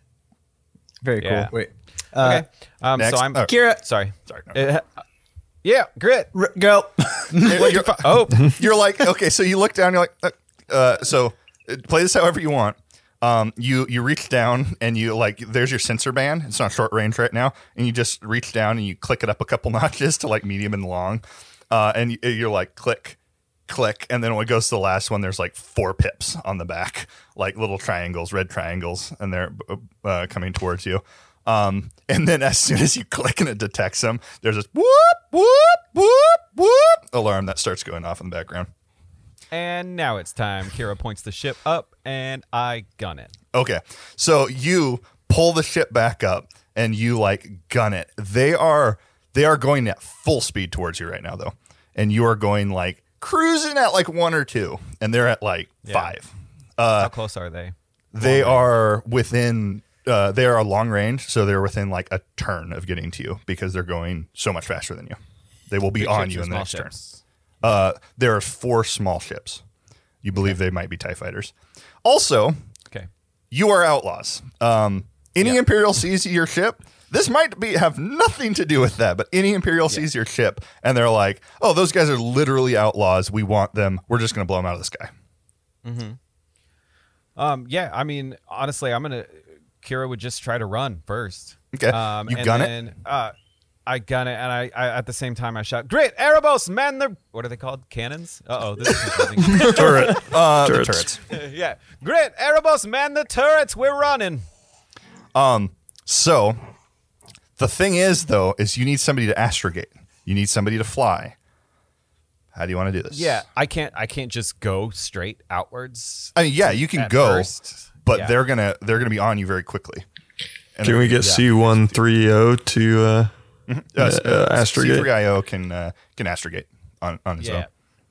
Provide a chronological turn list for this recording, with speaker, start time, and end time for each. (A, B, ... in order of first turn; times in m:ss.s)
0:01.0-0:01.5 A
0:01.2-0:01.5 B
0:02.1-0:02.4 A
0:02.1-0:04.9 B
0:03.0-0:03.5 C
0:03.4-0:03.8 A
0:04.3-0:04.6 C
0:05.6-0:06.3 B
0:06.3-0:07.7 A
0:07.4-0:38.7 C
0:07.5-0:08.6 B
0:39.5-0:43.3 B
0:43.5-0:57.1 C
0:55.8-0:56.1 B
0:57.0-0:58.7 B
0:58.1-1:05.2 C
1:05.7-1:06.9 C
1:06.0-1:07.2 B
1:07.6-1:09.6 C
1:10.2-1:12.6 C
1:13.5-1:25.1 C
1:25.8-1:26.2 B
1:27.4-1:33.3 B
1:31.7-1:32.7 C
1:33.8-1:40.2 B
1:39.6-1:41.2 C
1:39.6-1:41.1 D
1:41.3-1:44.4 B
1:45.3-1:46.6 C
1:47.6-1:51.4 C
1:52.5-1:53.4 C
1:53.1-1:58.4 B
1:56.4-1:57.5 C
1:58.0-2:00.0 C
2:00.8-2:02.0 C
2:00.8-2:03.3 D
2:03.7-2:07.6 C
2:04.0-2:05.1 D
2:07.4-2:07.7 B